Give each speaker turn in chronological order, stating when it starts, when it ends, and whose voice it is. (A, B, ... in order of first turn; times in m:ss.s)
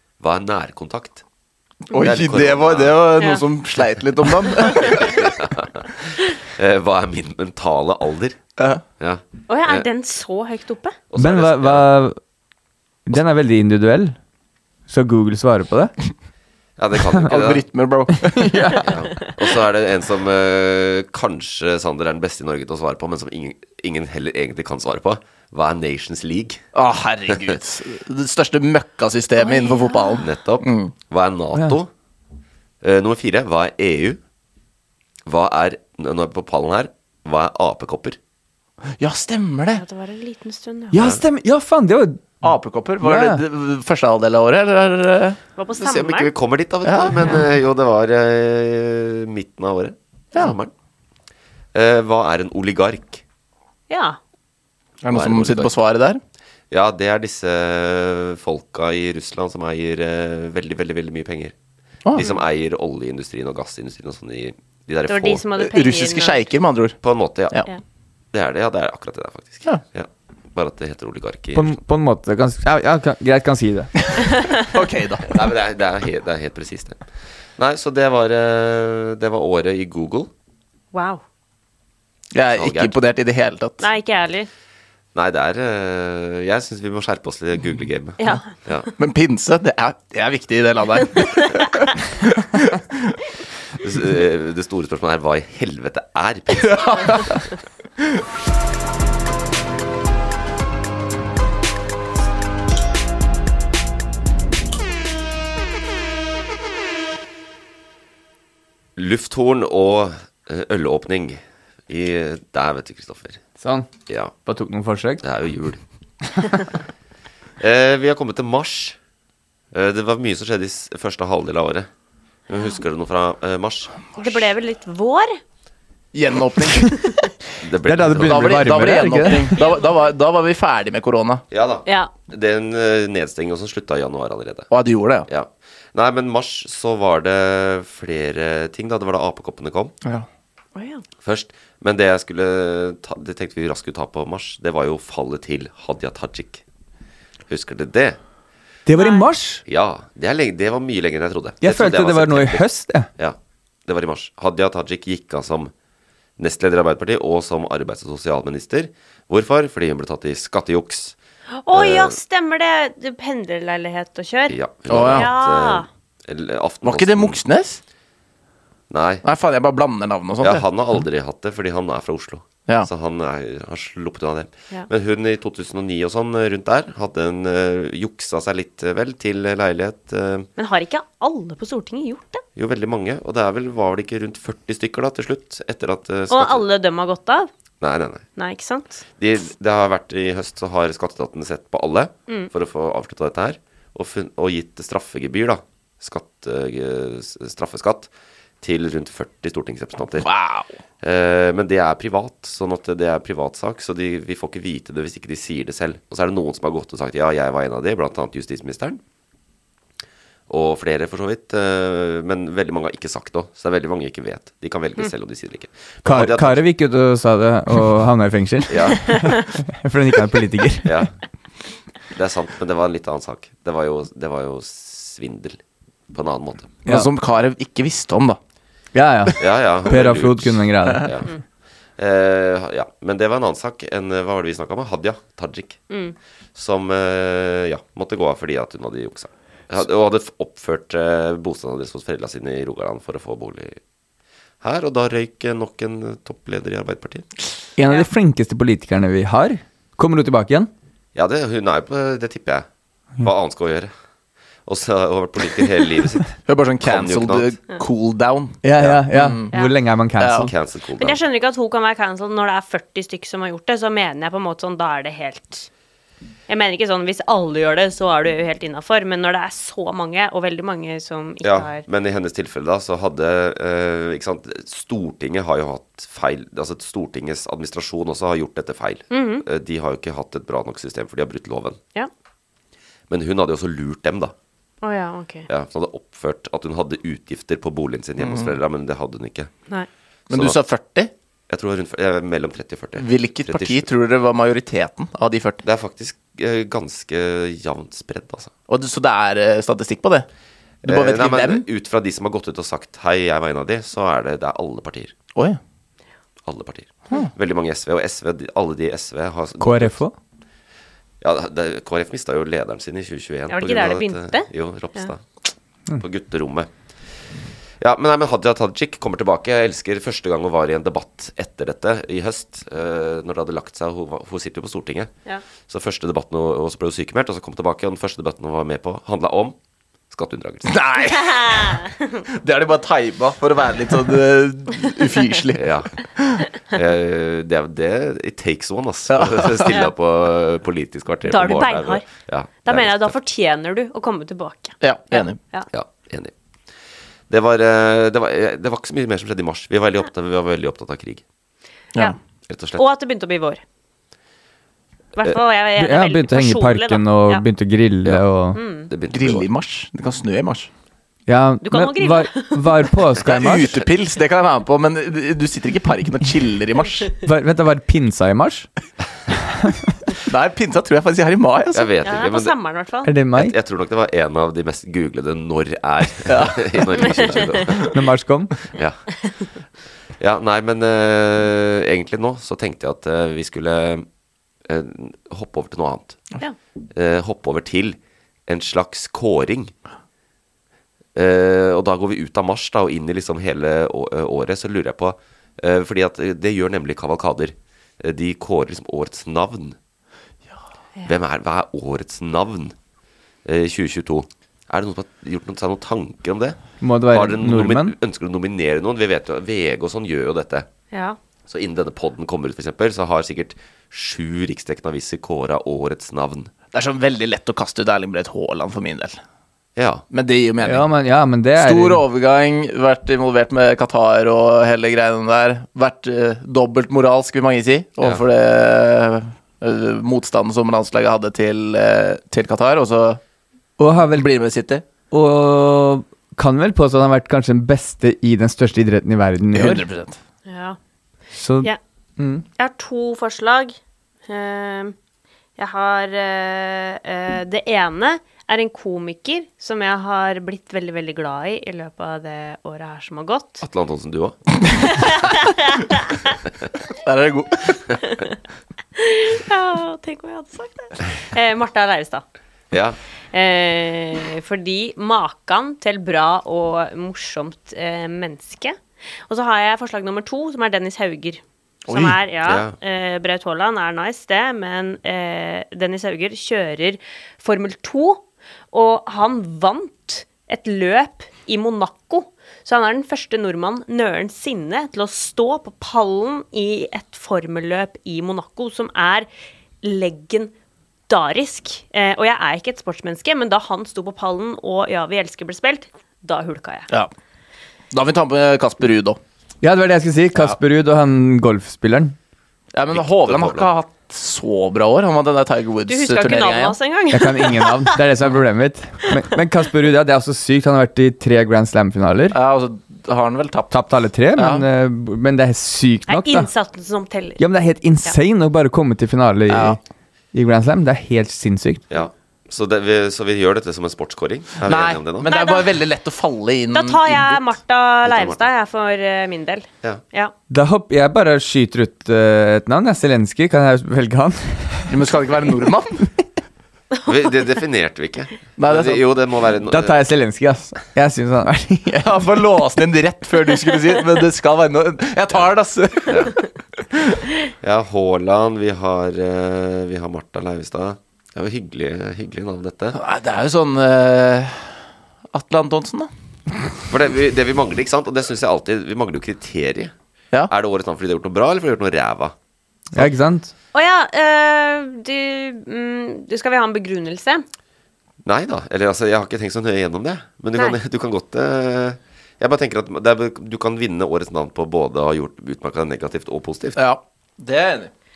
0:00.2-0:01.2 A
0:01.9-0:05.2 B
0:02.0-0:03.1 A
0:03.2-0:03.4 C
0:04.7-0:08.4 A
0:09.0-0:09.9 A
0:09.5-0:11.0 C
0:11.1-0:11.9 A
0:11.2-0:12.2 D
0:13.1-0:14.2 D
0:14.9-0:15.9 D
0:16.8-0:17.6 A
0:17.2-0:18.8 B
0:18.4-0:18.8 D
0:18.8-0:26.6 A
0:26.7-0:30.9 B
0:29.4-0:30.2 C
0:30.2-0:31.9 A
0:32.8-0:34.2 A
0:35.3-0:38.2 A
0:39.0-0:39.8 B
0:39.7-0:40.9 C
0:40.9-0:43.4 D
0:41.0-0:41.2 A
0:42.4-0:45.4 B
0:45.6-0:46.3 C
0:45.8-0:50.7 A
0:46.8-0:47.4 B
0:51.7-0:53.2 A
0:53.9-0:54.2 C
0:55.0-0:56.2 B
0:55.1-0:55.8 A
0:56.7-1:01.5 A
1:02.1-1:05.4 A
1:05.1-1:06.4 C
1:05.6-1:07.0 B
1:07.0-1:07.6 A
1:08.3-1:11.8 A
1:11.5-1:13.9 D
1:14.1-1:15.4 B
1:15.3-1:17.0 A
1:17.6-1:20.3 A
1:20.9-1:21.2 C
1:22.3-1:23.8 B
1:22.5-1:23.0 A
1:23.8-1:24.5 C
1:25.1-1:28.9 A
1:28.2-1:28.5 C
1:29.0-1:33.2 B
1:33.8-1:37.2 A
1:36.6-1:37.3 B
1:49.0-1:53.4 A
1:53.6-1:53.9 D
1:54.1-1:54.3 A
1:54.4-1:55.2 D
1:55.2-1:55.8 A
1:57.6-1:59.0 A
1:59.7-2:01.9 A
2:02.5-2:04.0 A
2:04.2-2:05.4 C
2:06.1-2:07.1 B
2:07.6-2:08.8 A
2:07.8-2:09.5 D
2:08.2-2:11.4 B
2:09.6-2:09.9 C
2:11.5-2:14.7 A
2:11.8-2:12.1 C
2:14.7-2:15.3 B
2:15.3-2:19.9 A
2:20.8-2:21.0 C
2:21.2-2:26.6 A
2:27.5-2:28.2 A
2:28.8-2:29.6 D
2:28.9-2:29.3 C
2:29.6-2:35.7 A
2:31.6-2:33.1 D
2:36.4-2:41.1 A
2:41.6-2:45.9 C
2:41.7-2:42.2 A
2:44.5-2:47.4 A
2:44.9-2:45.3 B
2:46.8-2:47.8 B
2:48.9-2:49.2 A
2:49.2-2:50.6 B
2:50.4-3:00.5 A
3:00.6-3:02.4 C
3:02.6-3:06.6 A
3:06.3-3:07.5 C
3:07.8-3:08.2 A
3:08.4-3:09.0 C
3:09.2-3:18.1 A
3:18.6-3:20.3 A
3:20.2-3:20.7 B
3:21.0-3:29.0 A
3:30.5-3:36.6 A
3:36.0-3:40.9 D
3:38.7-3:39.2 A
3:40.8-3:41.1 A
3:42.1-3:45.6 A
3:46.1-3:46.8 A
3:46.8-3:48.4 B
3:48.9-3:51.0 D
3:49.4-3:51.3 A
3:52.0-3:55.8 A
3:55.9-3:56.1 C
3:56.5-4:03.8 A
4:04.6-4:07.3 A
4:07.8-4:10.7 D
4:11.1-4:12.6 A
4:13.2-4:13.9 A
4:14.6-4:17.5 A
4:16.4-4:18.6 B
4:18.6-4:20.5 D
4:18.8-4:19.0 A
4:19.1-4:19.5 B
4:20.2-4:20.5 B
4:20.4-4:21.2 A
4:21.0-4:25.7 C
4:26.5-4:31.8 C
4:31.4-4:41.8 A
4:39.1-4:39.4 C
4:43.1-4:44.3 A
4:44.8-4:45.5 C
4:45.5-4:49.5 A
4:48.2-4:48.5 B
4:50.3-4:51.1 B
4:50.3-4:50.6 A
4:51.5-4:53.9 A
4:53.0-4:55.6 B
4:55.6-4:58.5 A
4:58.7-5:00.3 B
5:00.8-5:05.1 A
5:00.8-5:01.6 B
5:06.4-5:10.0 A
5:09.6-5:10.1 D
5:11.2-5:15.2 A
5:13.5-5:15.1 C
5:16.0-5:16.7 A
5:17.8-5:25.1 A
5:25.6-5:29.5 A
5:30.1-5:30.7 A
5:30.7-5:36.4 B
5:31.1-5:32.2 C
5:35.5-5:35.9 A
5:36.7-5:43.1 A
5:39.1-5:39.8 B
5:41.3-5:42.0 C
5:42.6-5:45.7 C
5:44.8-5:45.4 B
5:45.7-5:46.3 A
5:47.3-5:51.2 A
5:52.5-5:52.8 A
5:52.8-5:53.6 C
5:55.2-5:57.4 C
5:55.8-5:58.6 D
5:58.5-5:58.9 C
5:58.9-5:59.5 A
5:59.1-6:00.7 B
6:01.3-6:03.7 D
6:01.6-6:02.9 C
6:03.2-6:07.1 B
6:07.2-6:08.7 D
6:10.3-6:11.9 B
6:11.7-6:12.6 A
6:12.0-6:13.1 C
6:13.0-6:13.5 D
6:13.3-6:17.9 A
6:16.3-6:17.1 B
6:17.3-6:17.6 C
6:17.9-6:18.5 D
6:18.7-6:19.0 A
6:20.2-6:24.0 A
6:24.6-6:26.2 A
6:26.9-6:29.7 A
6:31.1-6:39.8 A
6:41.1-6:42.7 A
6:43.4-6:46.6 A
6:46.8-6:47.9 D
6:47.1-6:50.7 A
6:50.9-6:51.2 C
6:51.5-6:56.5 A
6:56.7-6:59.2 B
6:59.8-7:00.0 A
7:00.1-7:00.8 B
7:00.6-7:02.0 D
7:01.6-7:13.2 B
7:13.8-7:14.3 D
7:14.1-7:14.8 B
7:15.1-7:19.8 D
7:19.5-7:20.2 B
7:20.5-7:20.8 C
7:21.3-7:22.4 D
7:22.6-7:23.8 C
7:24.3-7:24.9 C
7:25.6-7:33.6 C
7:33.6-7:34.4 A
7:34.8-7:36.3 C
7:37.0-7:37.8 B
7:39.0-7:42.2 C
7:42.7-7:43.0 A
7:43.3-8:09.3 C
7:51.9-7:52.2 B
7:52.4-7:52.7 A
8:09.8-8:10.5 C
8:11.1-8:16.9 C
8:17.9-8:19.2 B
8:19.6-8:22.2 D
8:22.7-8:26.8 B
8:22.9-8:23.7 A
8:25.9-8:28.0 C
8:27.1-8:32.4 D
8:32.3-8:33.8 B
8:33.7-8:36.5 D
8:34.4-8:34.6 B
8:36.1-8:37.4 C
8:37.4-8:39.8 D
8:39.5-8:39.8 B
8:40.3-8:41.8 D
8:41.9-8:45.3 A
8:44.6-8:47.4 B
8:45.2-8:45.7 C
8:46.7-8:50.3 C
8:48.0-8:48.4 A
8:50.5-8:54.9 D
8:54.9-8:56.1 B
8:57.0-8:57.3 C
8:57.0-9:00.0 A
8:58.6-8:59.0 B
8:59.7-9:02.0 D
9:01.9-9:06.4 B
9:06.1-9:06.3 A
9:06.9-9:07.2 B
9:07.6-9:13.0 A
9:12.9-9:14.8 B
9:15.3-9:16.1 B
9:16.9-9:19.9 A
9:20.5-9:22.3 A
9:22.9-9:23.5 D
9:23.7-9:27.4 C
9:28.2-9:36.8 A
9:36.8-9:37.9 B